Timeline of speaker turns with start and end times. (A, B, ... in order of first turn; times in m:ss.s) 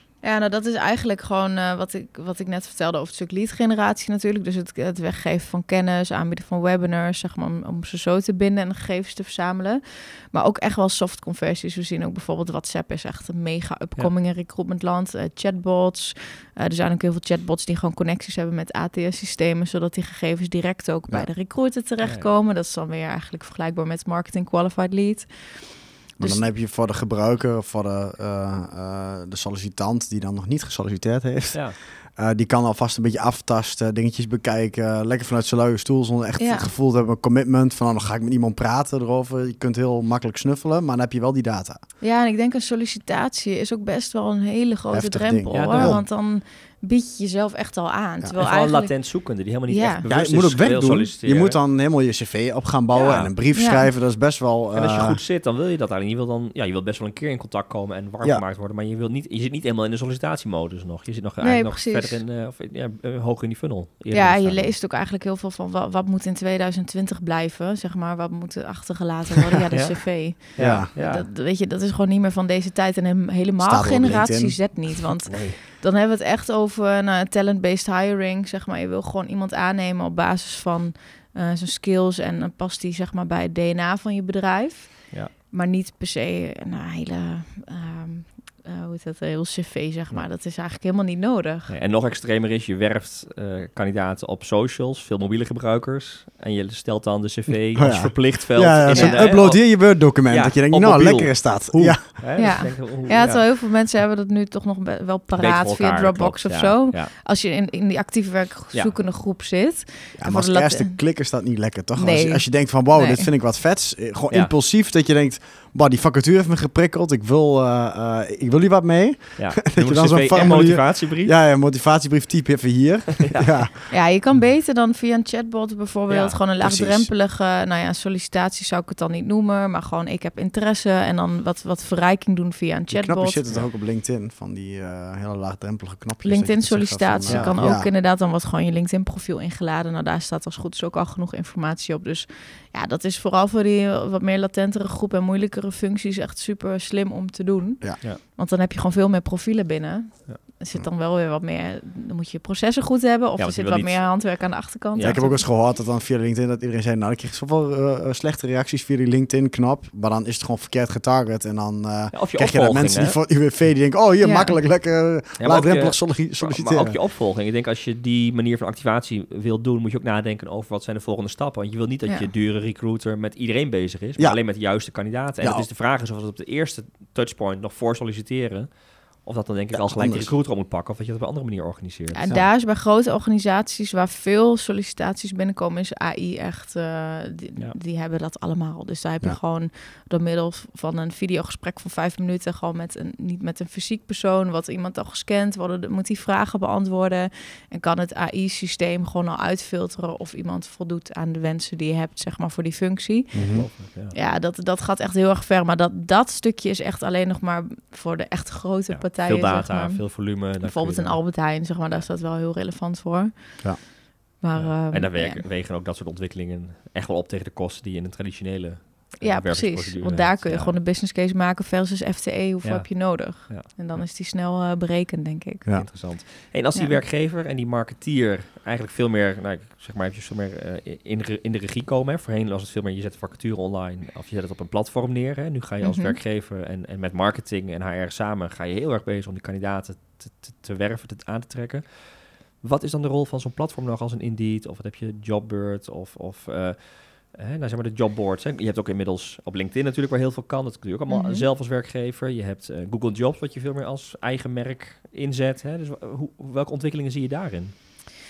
0:00.2-0:26.4 A
0:22.0-0:22.3 B
0:26.2-0:41.8 C
0:36.4-0:36.7 A
0:42.0-0:50.0 A
0:44.9-0:46.0 C
0:45.5-0:46.0 B
0:48.4-0:51.6 B
0:50.1-0:55.2 C
0:52.9-0:53.9 A
0:53.0-0:53.3 B
0:54.7-1:04.7 B
1:01.4-1:02.2 A
1:04.1-1:31.7 A
1:09.7-1:11.3 B
1:10.6-1:10.9 C
1:13.6-1:15.0 C
1:15.3-1:15.6 B
1:31.7-1:43.5 B
1:37.8-1:42.6 C
1:38.9-1:39.3 A
1:42.4-1:51.0 A
1:45.4-1:47.1 B
1:50.2-2:03.8 C
1:51.9-1:53.3 A
1:59.4-2:01.3 B
2:03.2-2:03.8 B
2:03.9-2:13.4 A
2:06.1-2:06.4 B
2:06.6-2:07.1 C
2:12.9-2:17.9 C
2:16.2-2:35.4 A
2:17.3-2:17.7 B
2:33.4-2:35.2 B
2:35.0-2:47.0 C
2:42.1-2:43.2 B
2:44.2-2:44.6 A
2:45.4-3:02.4 B
2:55.4-2:55.7 C
2:59.7-3:00.3 C
3:02.1-3:33.8 A
3:23.3-3:23.7 C
3:23.4-3:24.1 B
3:28.9-3:32.1 B
3:34.4-3:35.4 A
3:34.6-3:40.8 B
3:39.2-3:45.9 A
3:42.6-3:44.0 B
3:45.8-4:17.7 B
3:46.7-3:47.0 A
3:55.8-3:56.2 A
4:11.1-4:11.4 A